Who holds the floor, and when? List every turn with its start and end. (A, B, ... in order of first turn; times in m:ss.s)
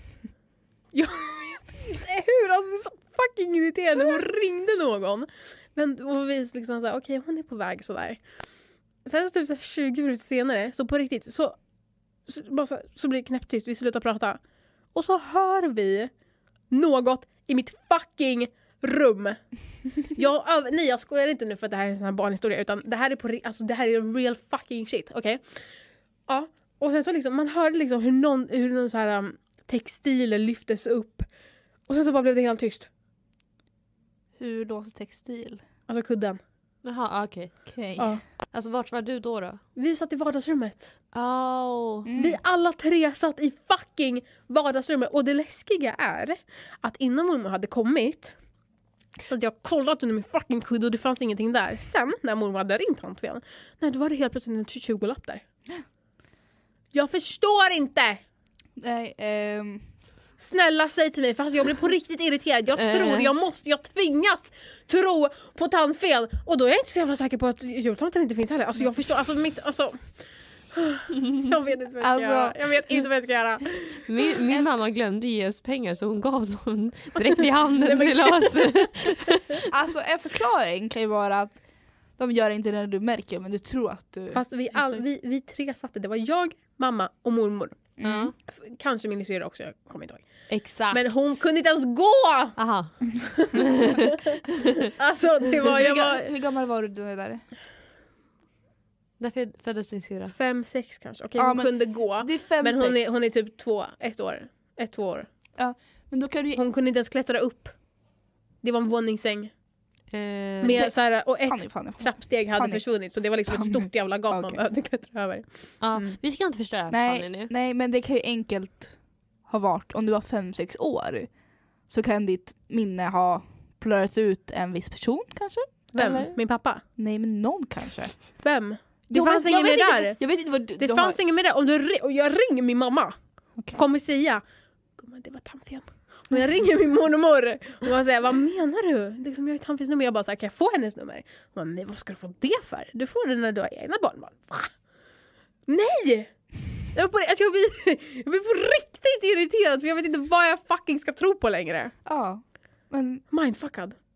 0:00.9-0:08.2 A
0:09.0-0:11.6 A
0:12.2-0:14.4 A
0:14.9-0:16.1 A
0:16.7-0:19.4 A
0:20.0-0:25.7 A
0:26.3-0:31.3 A
0:31.8-0:32.9 A
0:34.4-0:35.6 B
0:35.9-0:36.4 A
0:36.8-0:37.8 C
0:37.7-0:38.2 B
0:38.5-0:39.6 C
0:39.8-0:40.8 A
0:41.1-0:42.1 C
0:42.0-0:42.4 B
0:42.1-0:48.3 A
0:49.2-0:55.4 A
0:56.9-0:58.2 A
0:58.8-0:59.8 B
1:00.4-1:10.1 A
1:02.8-1:03.3 C
1:10.7-1:14.0 A
1:12.0-1:12.6 B
1:14.1-1:19.6 C
1:17.8-1:19.1 A
1:19.7-1:21.6 B
1:22.2-1:24.9 B
1:24.3-1:27.8 A
1:28.0-1:28.3 B
1:28.0-1:28.3 C
1:28.5-1:30.3 A
1:30.5-1:31.0 C
1:30.9-1:32.6 A
1:32.6-1:34.2 C
1:33.4-1:34.2 A
1:34.9-1:36.3 A
1:35.6-1:37.4 B
1:39.2-1:40.3 C
1:40.3-1:45.3 A
1:41.4-1:43.1 B
1:45.6-1:46.6 B
1:46.5-1:47.8 A
1:48.6-1:49.5 A
1:50.1-1:50.9 C
1:50.6-1:56.1 A
1:50.7-1:52.8 B
1:53.5-1:54.6 B
1:55.8-1:57.5 C
1:56.9-2:01.3 B
2:01.9-2:06.3 B
2:05.9-2:06.8 A
2:07.0-2:08.4 B
2:08.4-2:10.2 A
2:09.1-2:11.2 B
2:10.8-2:13.2 A
2:13.7-2:14.4 A
2:15.0-2:24.8 A
2:25.6-2:31.9 A
2:32.0-2:33.2 B
2:33.3-2:33.9 A